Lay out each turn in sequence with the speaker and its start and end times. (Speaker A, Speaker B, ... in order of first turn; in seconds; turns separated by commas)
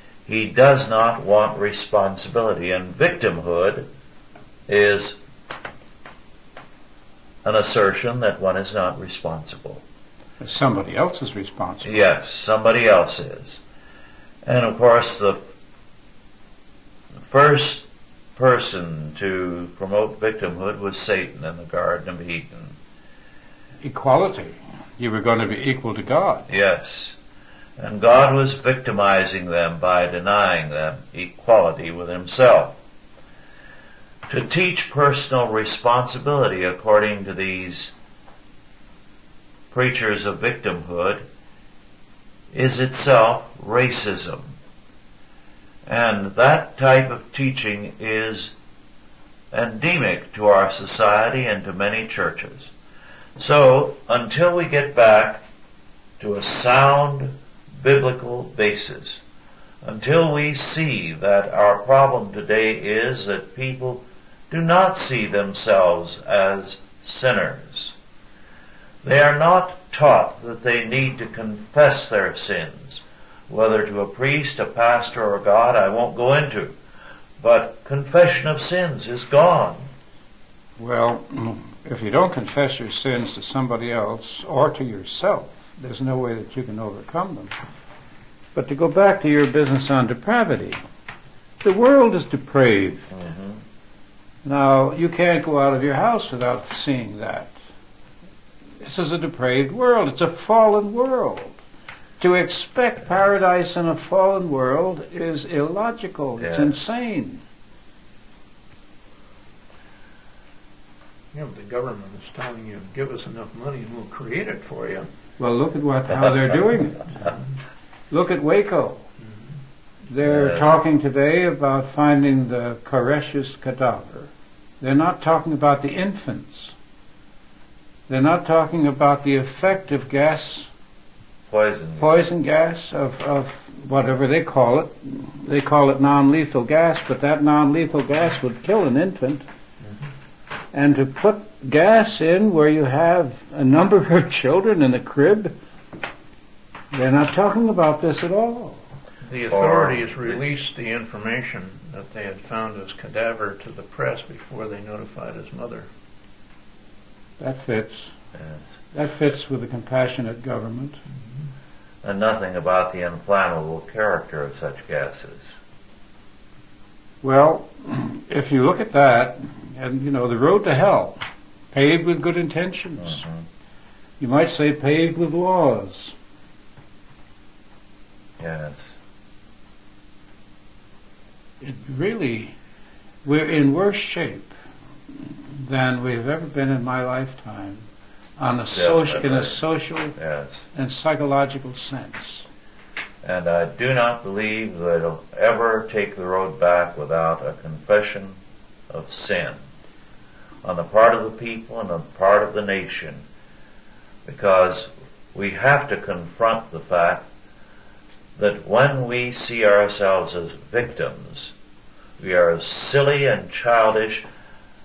Speaker A: 0.2-3.9, Speaker A: 4.7-5.2, Speaker A: 7.4-9.8, Speaker B: 10.4-11.9, Speaker A: 11.8-13.6, Speaker A: 14.4-15.4, Speaker A: 17.3-22.8, Speaker B: 23.8-26.5, Speaker A: 26.5-27.1, Speaker A: 27.8-32.8, Speaker A: 34.3-37.9, Speaker A: 39.7-41.2, Speaker A: 42.5-44.5, Speaker A: 45.9-48.5, Speaker A: 49.5-52.7, Speaker A: 53.4-55.4, Speaker A: 56.2-59.2, Speaker A: 59.8-68.0, Speaker A: 69.0-76.7, Speaker A: 77.4-79.9, Speaker B: 80.8-87.5, Speaker B: 88.5-90.8, Speaker B: 91.6-93.1, Speaker A: 93.1-93.6, Speaker B: 94.4-97.5, Speaker B: 98.8-101.6, Speaker B: 102.2-107.4, Speaker A: 106.4-106.7, Speaker C: 111.3-115.0, Speaker B: 115.4-117.3, Speaker B: 118.1-119.0, Speaker B: 120.1-124.3, Speaker A: 120.3-120.6, Speaker B: 124.8-126.7, Speaker B: 128.1-130.7, Speaker A: 131.5-132.2, Speaker B: 132.0-139.4, Speaker B: 140.7-145.5, Speaker B: 146.9-148.8, Speaker C: 149.2-155.9, Speaker A: 149.5-150.0, Speaker B: 157.4-158.1, Speaker B: 158.9-161.0, Speaker A: 162.0-165.5, Speaker B: 167.2-173.2, Speaker B: 174.2-176.1, Speaker A: 178.4-178.9, Speaker B: 181.6-182.5, Speaker B: 183.2-184.5, Speaker B: 185.3-187.9, Speaker B: 188.4-190.2, Speaker A: 188.7-189.6, Speaker A: 190.2-190.7, Speaker B: 190.7-192.5, Speaker A: 193.2-198.4, Speaker A: 198.9-199.6, Speaker A: 200.6-203.2, Speaker A: 204.2-207.3, Speaker A: 208.4-211.5, Speaker A: 212.2-214.2